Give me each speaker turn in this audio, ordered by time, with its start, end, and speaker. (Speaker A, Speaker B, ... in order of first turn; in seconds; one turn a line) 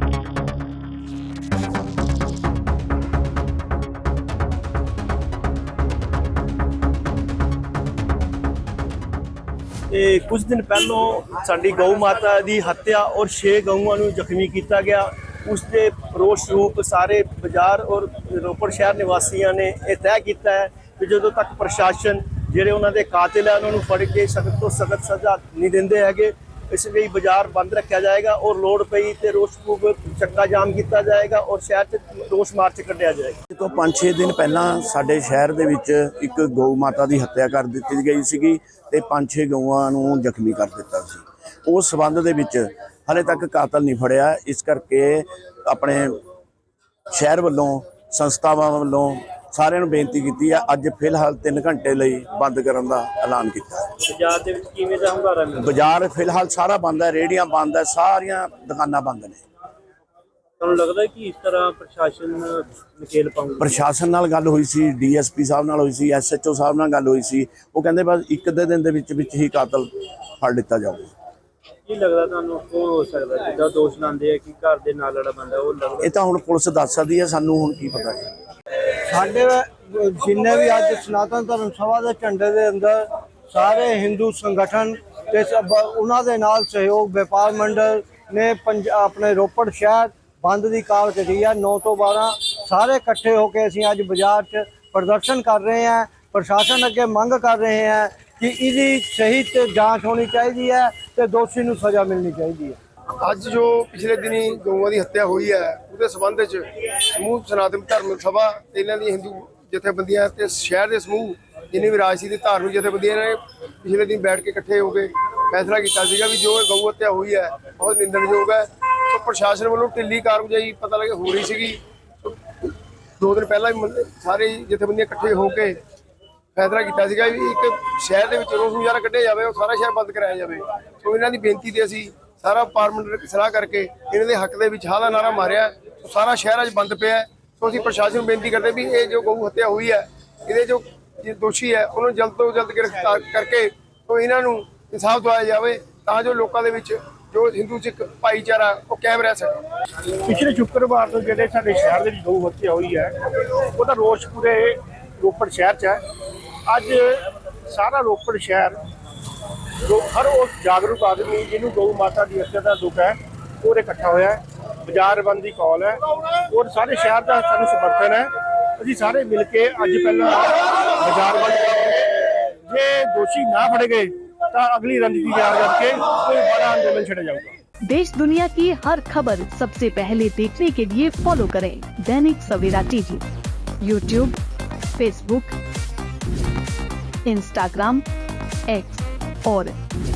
Speaker A: 9.9-33.4
Speaker B: 33.5-46.2
Speaker B: 47.1-54.0
Speaker A: 54.1-55.8
Speaker B: 55.6-59.4
Speaker A: 60.6-63.8
Speaker B: 63.6-71.1
Speaker A: 71.9-76.1
Speaker B: 76.0-78.3
Speaker C: 79.1-102.8
Speaker D: 103.2-125.8
Speaker D: 126.5-149.6
Speaker E: 150.2-156.0
Speaker E: 156.7-158.8
Speaker E: 159.8-172.1
Speaker E: 172.7-177.6
Speaker F: 177.8-183.2
Speaker F: 183.8-184.3
Speaker F: 184.9-185.5
Speaker F: 187.2-188.0
Speaker F: 188.7-189.7